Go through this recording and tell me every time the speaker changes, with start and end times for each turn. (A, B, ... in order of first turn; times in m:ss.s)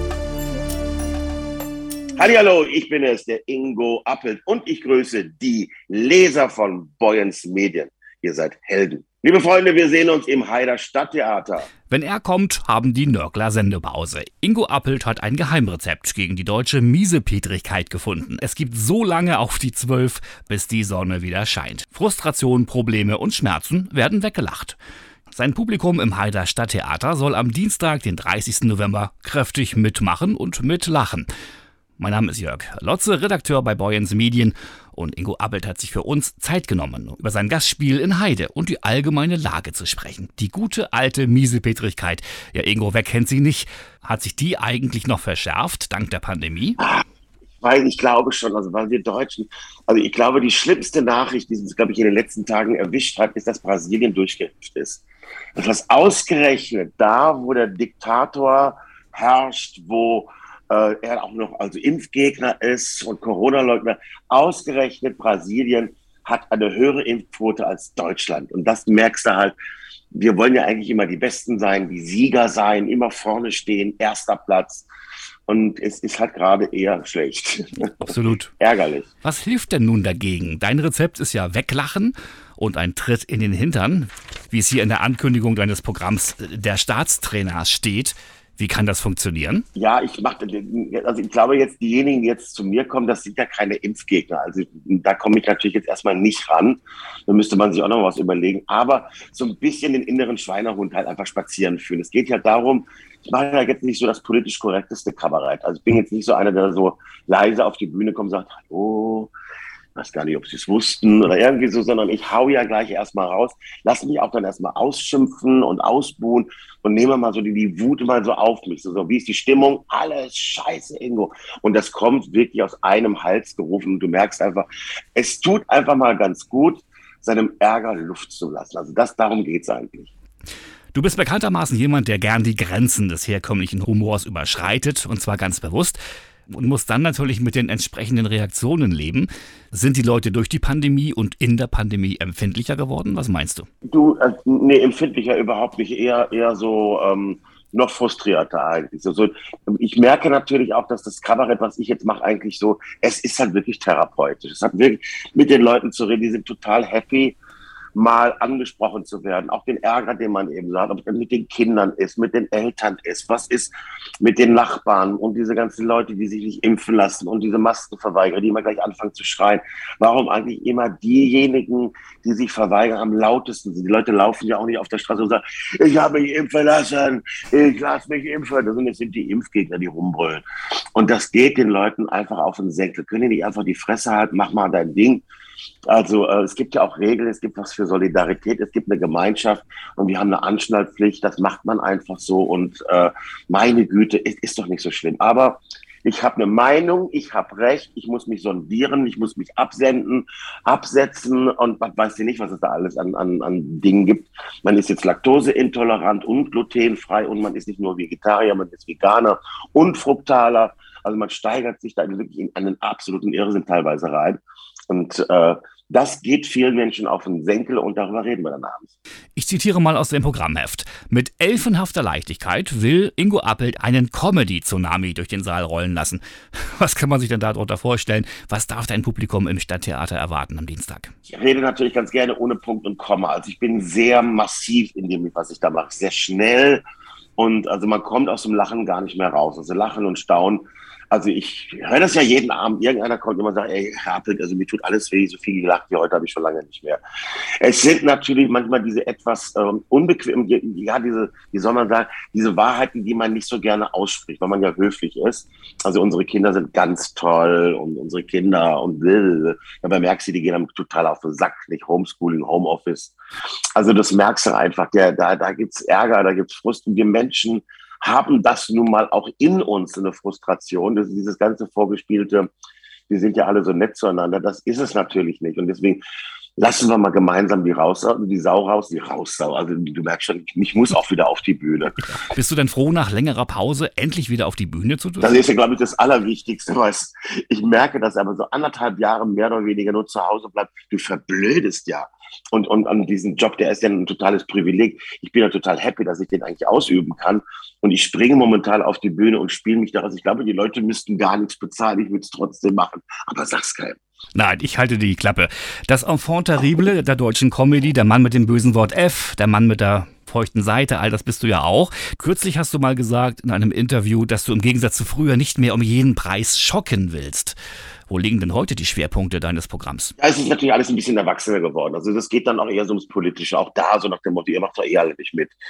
0:02.1-0:11.7 A
0:11.9-0:24.8 B
0:25.3-0:31.3 B
0:32.0-0:46.8 B
0:46.8-0:47.0 A
0:47.6-0:55.0 A
0:55.6-1:09.5 A
1:10.1-1:14.9 A
1:15.5-1:19.1 A
1:18.0-1:18.5 B
1:19.2-1:29.6 B
1:29.8-1:49.3 A
1:49.9-2:10.1 A
2:10.9-2:16.0 B
2:16.5-2:23.7 B
2:23.9-2:37.4 A
2:37.9-3:00.4 A
3:00.9-3:05.2 A
3:05.8-3:38.9 A
3:39.4-3:51.1 B
3:51.3-3:56.8 A
3:57.4-4:07.0 A
4:07.6-4:23.1 A
4:23.7-4:32.5 A
4:33.1-4:36.0 A
4:36.6-4:42.1 A
4:42.1-4:45.4 B
4:45.2-5:04.0 A
5:04.4-5:17.6 B
5:18.1-5:20.1 B
5:20.2-5:25.5 A